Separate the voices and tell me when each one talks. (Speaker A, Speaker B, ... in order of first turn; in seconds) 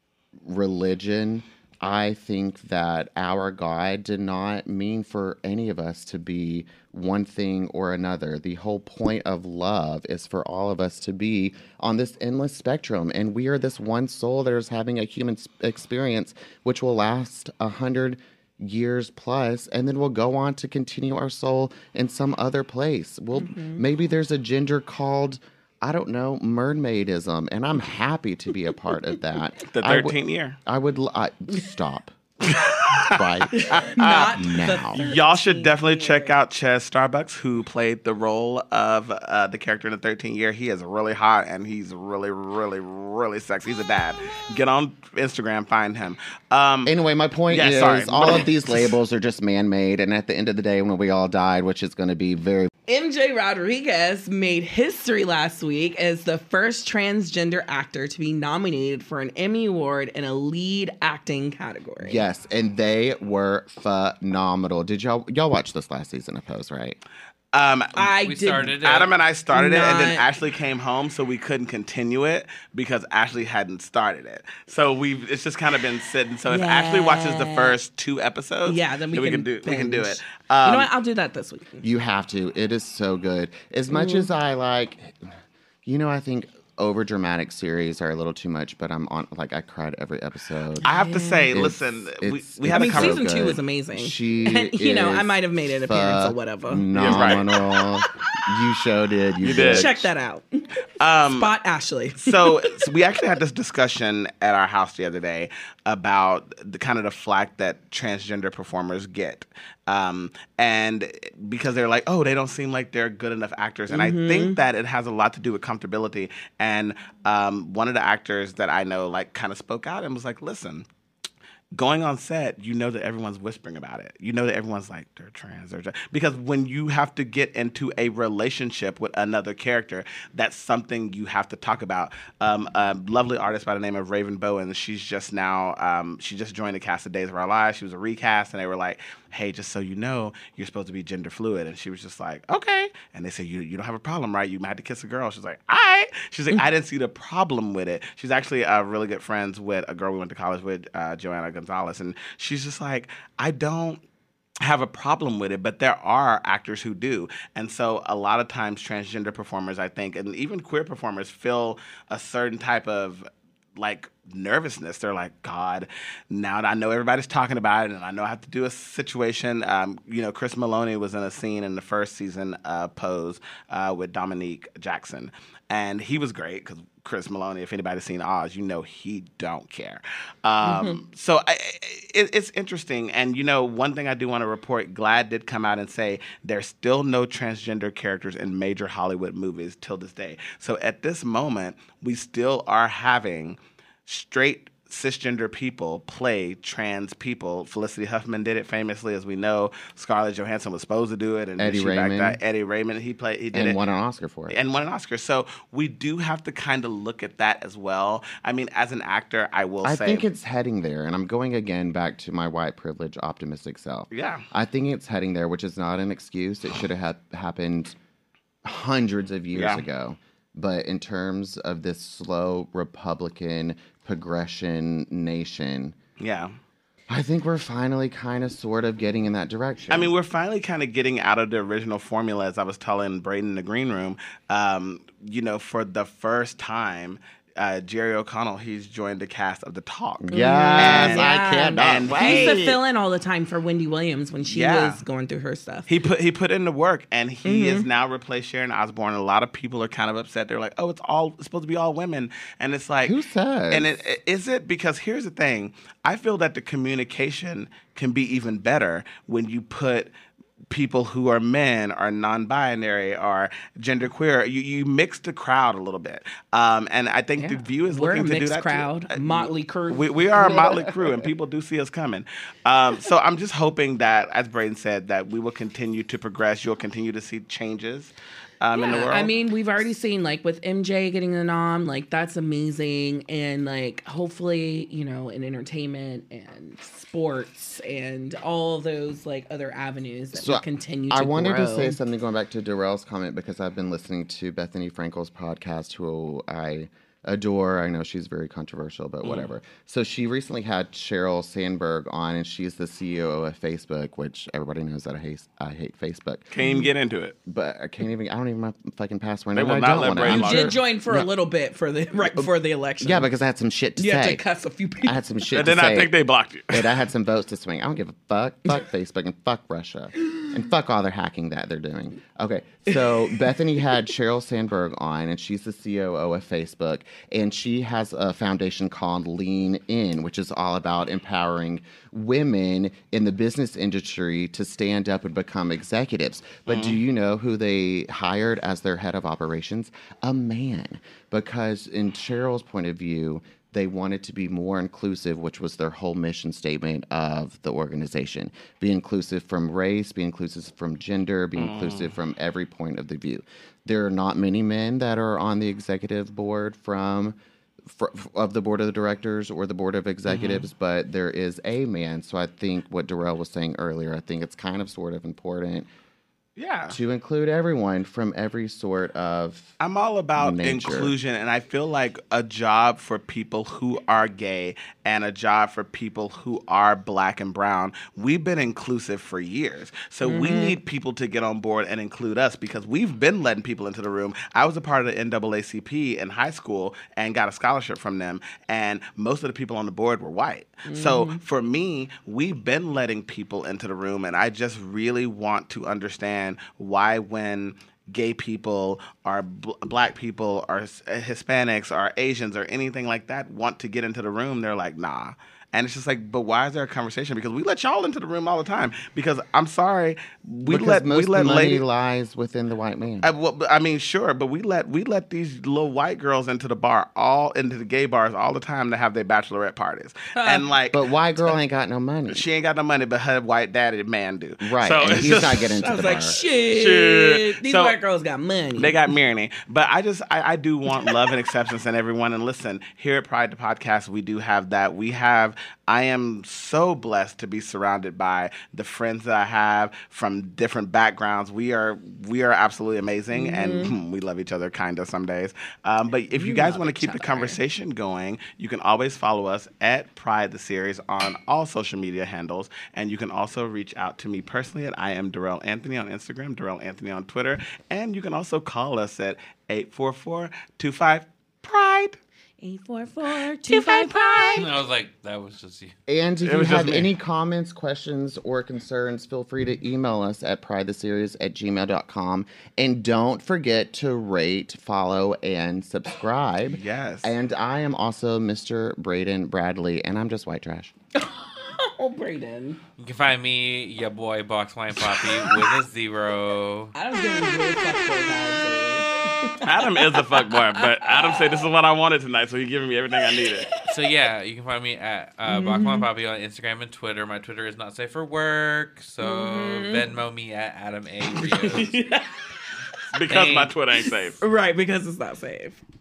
Speaker A: 0.4-32.2, 33.0-35.0, 46.8-52.7, 62.0-67.0, 81.8-85.3, 85.8-90.9, 91.5-100.1, 201.6-202.4, 203.5-204.6, 209.8-217.9, 218.6-225.9, 227.1-230.1, 240.2-242.8, 253.0-254.0, 290.3-306.5, 307.4-311.3, 312.2-312.5, 313.0-314.4, 315.0-316.1, 316.7-365.9, 366.9-369.8, 370.3-371.1, 410.6-413.3, 420.9-422.4, 424.6-426.4, 466.1-480.9
Speaker B: 23.3-23.8, 33.5-36.3, 52.9-62.2, 67.9-68.7, 69.5-70.2, 76.5-77.7, 78.6-81.8, 83.9-84.3, 90.8-91.5, 92.7-97.8, 99.4-100.5, 101.3-102.8, 113.9-114.6, 180.6-181.0, 240.3-245.9, 247.4-247.9, 267.4-271.1, 278.7-292.0, 306.6-306.9, 310.3-313.3, 314.0-315.2, 322.9-323.4, 380.2-380.8, 390.8-391.4, 420.3-420.6, 425.8-429.1, 443.3-443.9, 446.3-447.6, 462.6-464.7, 481.1-482.8, 485.1-485.7, 486.9-491.6, 493.2-493.9, 495.5-496.1, 499.2-500.1, 501.4-502.4, 503.9-505.8
Speaker C: 29.7-30.6, 32.4-46.9, 47.5-48.5, 67.5-68.1, 68.7-80.9, 90.8-93.3, 96.9-97.5, 99.4-99.9, 101.0-101.5, 102.2-120.8, 121.7-154.0, 154.6-203.8, 204.5-210.2, 214.1-214.4, 219.5-219.8, 226.2-226.6, 229.9-240.2, 240.8-242.6, 244.4-245.0, 245.9-253.2, 253.7-260.1, 260.7-279.3, 306.5-307.4, 309.5-310.8, 315.5-316.9, 336.7-337.0, 351.6-352.1, 360.3-360.6, 366.6-367.0, 369.8-411.8, 413.2-421.0, 422.3-427.9, 428.8-462.2, 463.7-464.6, 466.4-467.1, 476.7-477.3, 489.6-493.7, 503.1-504.4
Speaker D: 68.2-69.1, 464.6-465.9, 483.0-486.9, 493.8-502.0, 503.3-503.7